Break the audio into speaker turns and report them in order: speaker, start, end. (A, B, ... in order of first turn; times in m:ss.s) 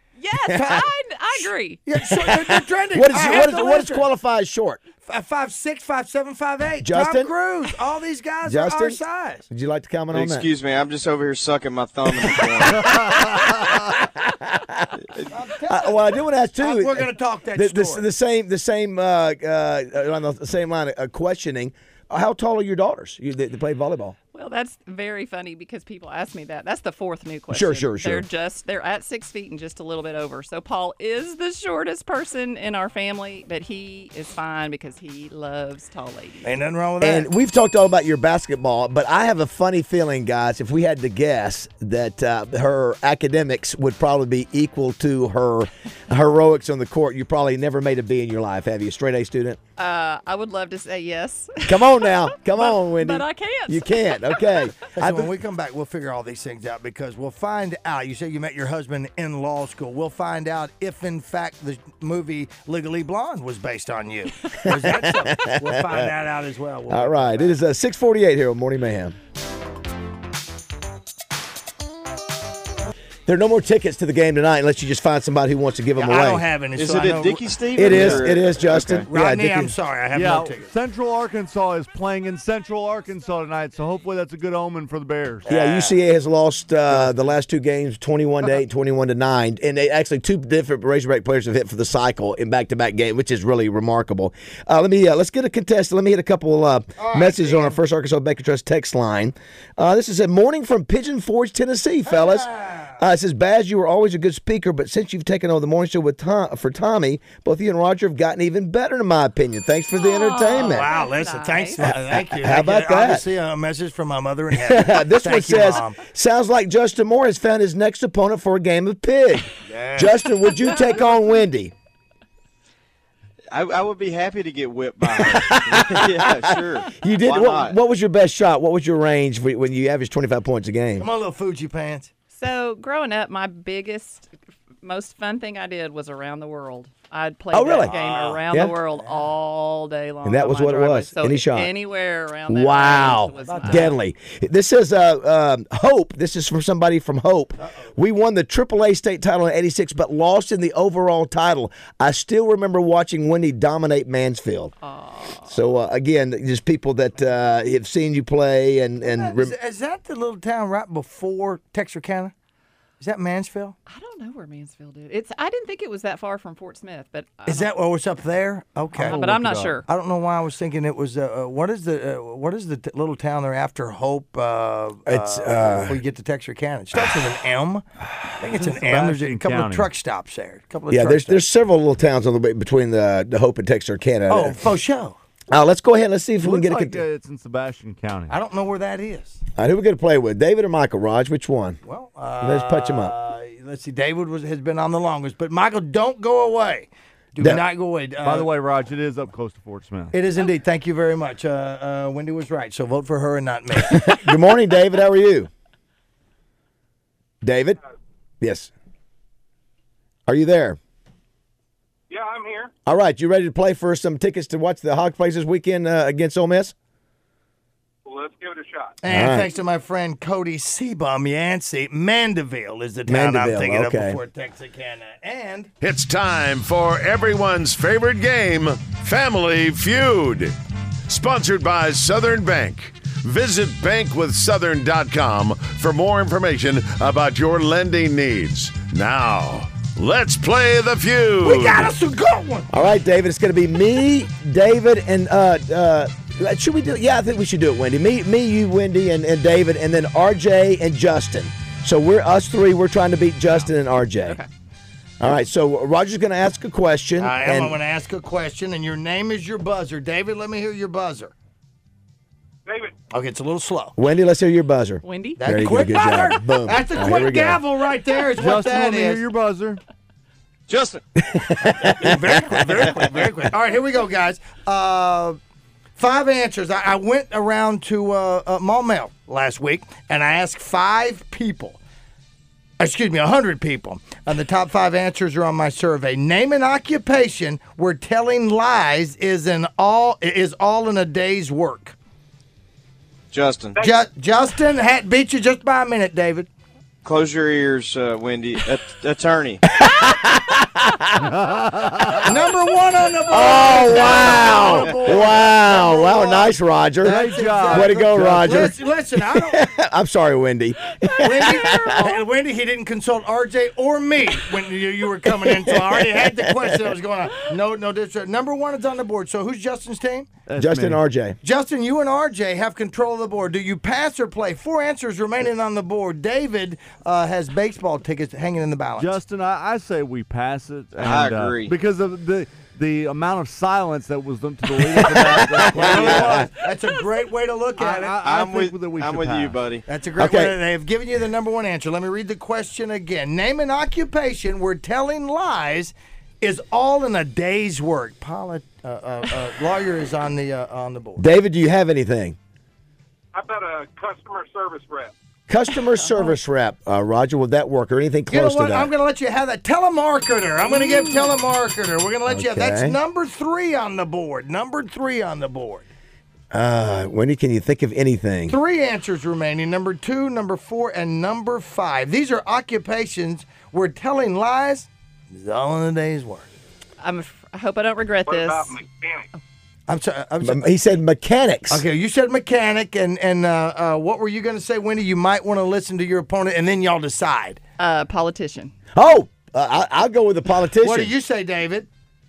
0:00.2-0:01.8 A
0:00.5-0:00.8 B
0:01.8-0:04.1 B
0:02.0-0:04.8 C
0:05.1-0:09.4 B
0:06.8-0:07.3 C
0:08.4-0:10.4 C
0:10.1-0:13.2 D
0:12.7-0:13.7 E
0:14.0-0:14.9 C
0:15.3-0:18.0 B
0:15.7-0:24.2 C
0:24.3-0:36.5 A
0:27.5-0:28.2 C
0:36.4-0:37.3 B
0:37.0-0:49.6 C
0:49.8-0:54.7 A
0:51.6-0:55.3 C
0:54.9-1:07.6 B
1:04.6-1:06.1 C
1:06.9-1:09.2 C
1:13.3-1:16.4 C
1:16.0-1:18.3 B
1:16.7-1:19.1 D
1:17.8-1:19.7 C
1:19.1-1:20.7 B
1:20.1-1:25.5 E
1:25.4-1:26.0 B
1:25.5-1:50.9 C
1:37.0-1:37.8 B
1:42.1-1:43.0 B
1:49.9-1:51.9 A
1:50.5-1:56.0 B
1:51.8-1:53.2 C
1:54.6-2:01.7 C
1:59.7-2:00.3 B
2:03.5-2:07.8 D
2:05.2-2:11.1 C
2:11.0-2:12.1 B
2:12.3-2:14.3 A
2:14.8-2:24.0 A
2:17.5-2:17.9 C
2:17.8-2:19.2 B
2:20.2-2:21.7 C
2:22.5-2:34.7 C
2:23.3-2:24.0 B
2:34.8-2:35.6 A
2:35.4-2:39.5 C
2:39.0-2:42.3 B
2:43.0-2:43.8 B
2:43.9-2:47.7 A
2:47.4-2:49.2 B
2:49.0-2:49.8 A
2:49.0-2:49.8 E
2:49.8-3:01.4 B
2:55.0-2:56.0 C
2:58.5-2:59.9 E
3:00.9-3:04.6 C
3:04.3-3:05.2 B
3:05.5-3:07.0 C
3:06.4-3:08.4 E
3:08.3-3:09.4 B
3:09.6-3:11.8 C
3:11.8-3:18.5 B
3:12.4-3:13.1 C
3:18.2-3:20.2 E
3:20.1-3:24.2 B
3:23.8-3:25.5 C
3:27.4-3:27.8 C
3:28.4-3:28.7 C
3:30.3-3:30.8 C
3:32.1-3:32.7 F
3:32.8-3:36.7 C
3:38.0-3:39.0 F
3:39.0-3:45.7 B
3:39.1-3:39.5 C
3:43.1-3:44.2 C
3:45.8-3:50.5 G
3:51.1-4:01.9 G
4:01.4-4:02.7 B
4:02.7-4:14.4 C
4:15.2-4:17.8 C
4:17.2-4:21.3 B
4:22.6-4:22.9 F
4:23.1-4:24.0 B
4:24.0-4:27.6 C
4:25.0-4:25.4 A
4:25.4-4:29.2 B
4:28.4-4:29.8 E
4:30.7-4:31.0 D
4:31.2-4:32.5 C
4:31.8-4:35.4 B
4:36.0-4:41.8 B
4:42.8-4:52.0 B
4:53.3-4:53.8 D
4:53.8-4:56.5 B
4:57.0-4:59.6 D
4:59.7-5:01.2 C
5:01.2-5:02.3 E
5:02.2-5:09.6 B
5:03.3-5:08.8 C
5:07.0-5:08.6 E
5:09.3-5:12.1 C
5:11.1-5:20.3 B
5:15.4-5:16.8 C
5:20.5-5:21.0 E
5:20.6-5:21.4 C
5:21.4-5:29.2 B
5:29.0-5:36.5 E
5:31.0-5:31.7 D
5:35.5-5:36.5 C
5:35.7-5:38.2 B
5:37.8-5:39.6 E
5:38.2-5:39.8 D
5:39.9-5:51.2 B
5:40.2-5:40.6 C
5:51.2-5:52.4 C
5:53.3-5:55.1 F
5:55.5-5:58.9 C
5:55.9-5:56.4 A
5:58.3-6:05.9 B
6:00.9-6:01.2 A
6:02.3-6:03.0 C
6:06.5-6:08.6 C
6:08.5-6:16.5 B
6:17.0-6:18.8 A
6:18.2-6:19.3 F
6:19.9-6:20.8 B
6:20.4-6:21.8 C
6:21.7-6:27.6 B
6:27.8-6:28.7 A
6:28.9-6:31.1 C
6:30.8-6:31.9 B